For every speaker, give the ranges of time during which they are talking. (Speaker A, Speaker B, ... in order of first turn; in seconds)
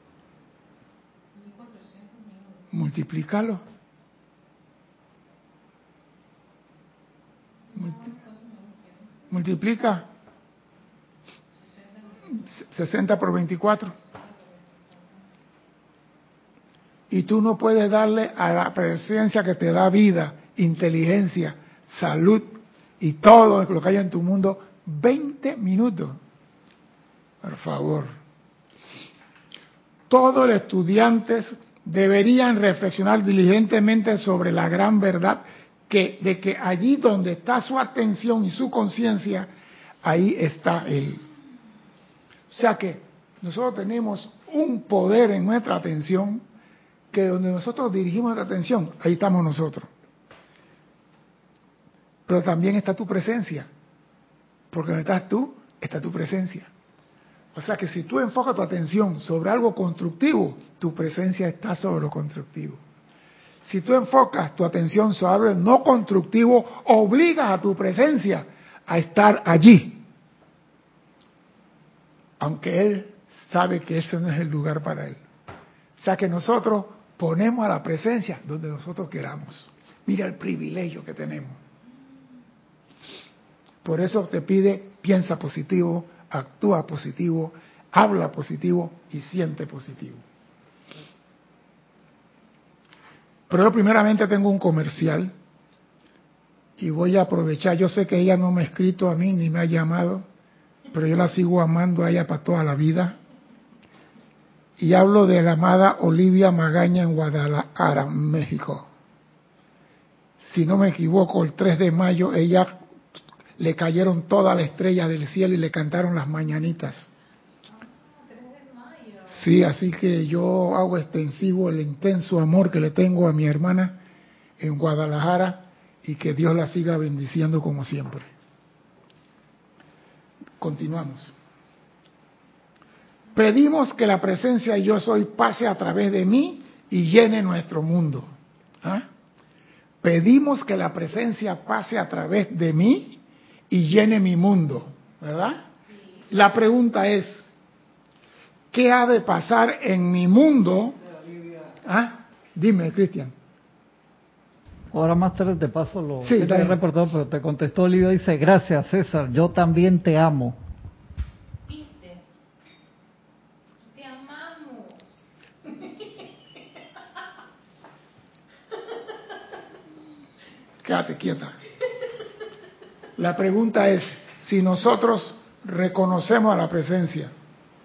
Speaker A: 1.3-2.6, 7.7-8.8, 117.8-119.3, 161.7-162.2, 163.8-165.2
Speaker B: 2.7-3.6, 9.3-10.1, 12.3-13.9, 17.1-26.2, 27.4-28.1, 30.1-39.5, 40.0-41.2, 42.5-46.4, 47.1-49.9, 52.3-53.7, 54.7-56.7, 57.5-62.8, 63.6-70.0, 72.4-75.2, 76.0-81.6, 83.8-90.2, 93.5-95.3, 96.8-100.2, 100.9-103.2, 104.8-108.8, 110.4-112.7, 113.6-117.1, 119.3-124.0, 124.6-128.3, 130.6-131.3, 133.3-138.3, 138.8-139.1, 140.0-145.7, 146.3-147.5, 148.7-151.0, 151.8-153.3, 156.2-156.8, 170.8-171.5, 173.2-177.3
Speaker C: 151.2-151.7, 154.9-160.6